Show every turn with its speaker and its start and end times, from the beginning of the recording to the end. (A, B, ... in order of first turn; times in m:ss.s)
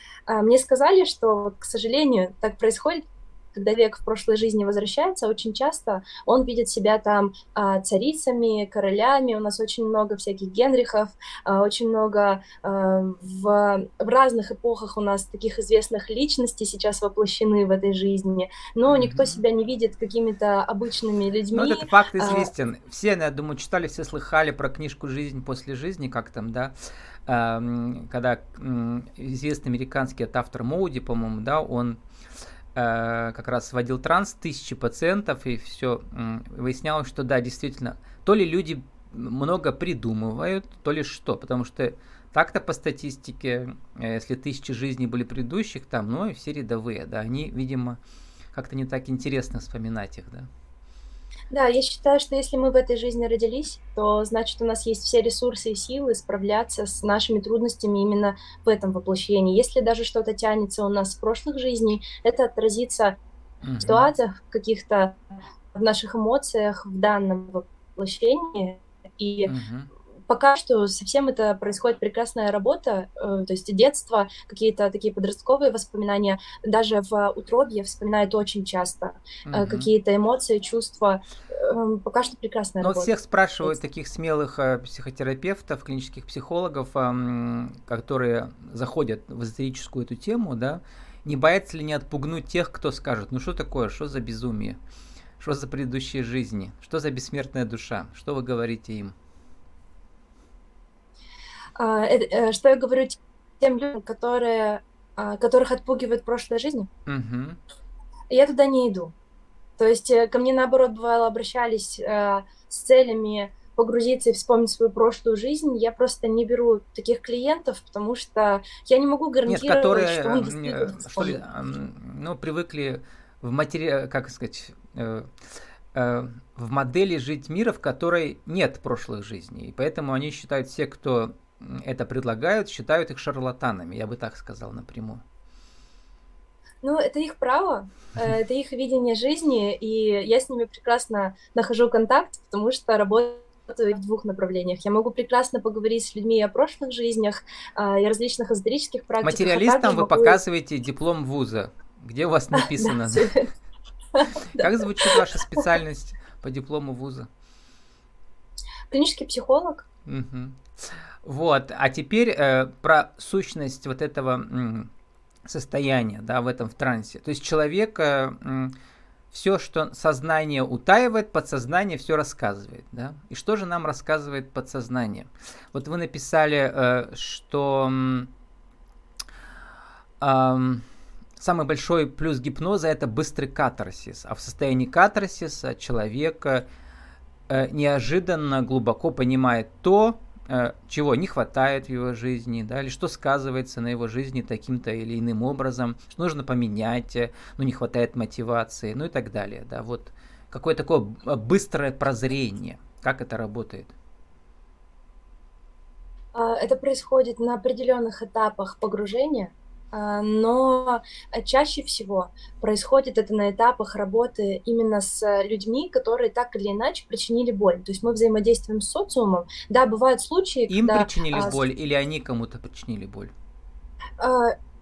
0:00.3-0:22.5 A
0:18.9-0:19.4 B
0:21.5-0:26.7 B
0:27.3-0:32.0 B
0:32.7-0:48.0 B
0:48.5-0:50.5 B
0:51.5-1:03.2 A
1:03.6-1:04.1 B
1:03.8-1:05.2 A
1:05.7-1:09.5 A
1:09.4-1:09.9 B
1:10.3-1:23.8 A
1:19.4-1:19.9 B
1:22.8-1:34.8 B
1:35.4-1:39.1 B
1:41.8-1:46.9 A
1:47.1-1:47.6 B
1:48.3-1:49.1 A
1:49.8-2:01.4 A
1:59.4-2:05.3 B
2:05.9-2:15.2 B
2:16.8-2:30.4 A
2:29.2-2:33.4 B
2:32.6-2:33.4 A
2:34.1-2:35.2 A
2:34.5-2:37.3 B
2:38.9-2:39.8 A
2:40.0-2:40.6 B
2:41.2-2:44.9 B
2:45.4-2:48.7 B
2:49.3-2:58.3 B
3:00.2-3:00.8 B
3:01.4-3:06.6 B
3:07.5-3:23.9 B
3:26.3-3:41.6 A
3:40.7-3:43.3 B
3:44.2-3:44.6 A